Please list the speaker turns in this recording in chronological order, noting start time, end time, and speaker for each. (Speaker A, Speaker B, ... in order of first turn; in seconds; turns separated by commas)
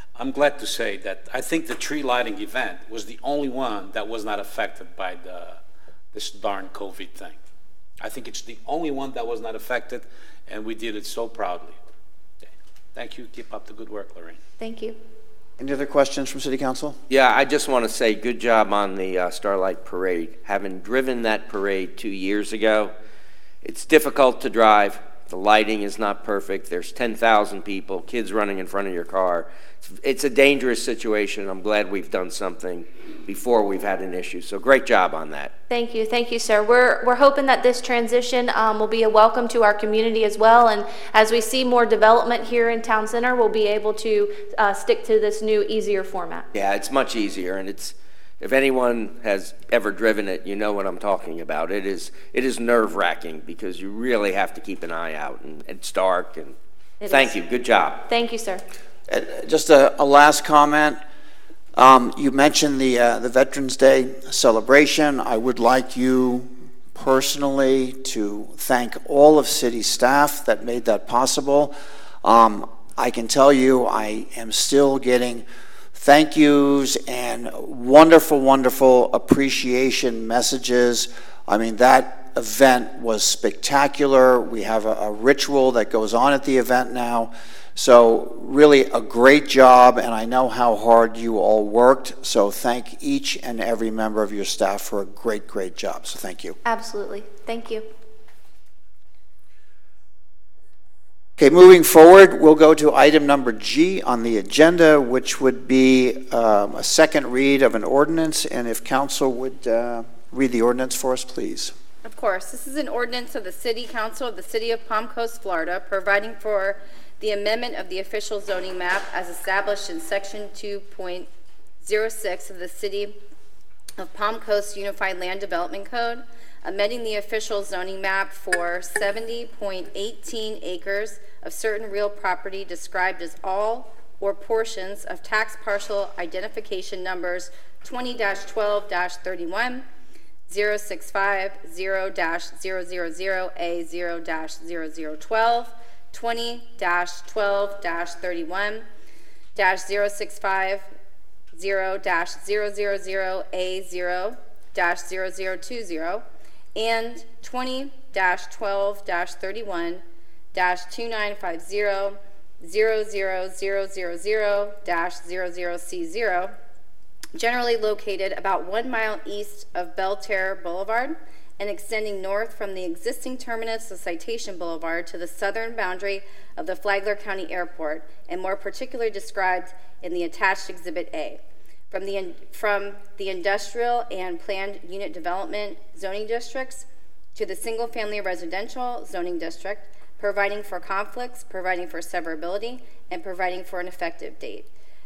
Speaker A: 0.2-5.6, Speaker A: 6.1-7.4, Speaker A: 8.0-11.8, Speaker A: 12.9-14.4, Speaker B: 14.6-15.0, Speaker C: 15.6-17.0, Speaker D: 17.1-22.9, Speaker D: 23.6-35.5, Speaker B: 35.7-46.5, Speaker D: 46.5-56.6, Speaker B: 57.0-57.4, Speaker D: 57.1-58.0, Speaker B: 58.1-58.6, Speaker C: 59.1-61.0, Speaker C: 61.8-96.6, Speaker B: 96.7-97.9, Speaker C: 101.4-111.7, Speaker E: 112.0-121.3, Speaker E: 121.8-123.2, Speaker E: 124.0-139.8, Speaker E: 140.5-148.8, Speaker E: 149.6-150.9, Speaker E: 151.5-156.2, Speaker E: 156.8-160.0, Speaker E: 160.5-166.5, Speaker E: 167.3-181.4, Speaker E: 181.9-194.7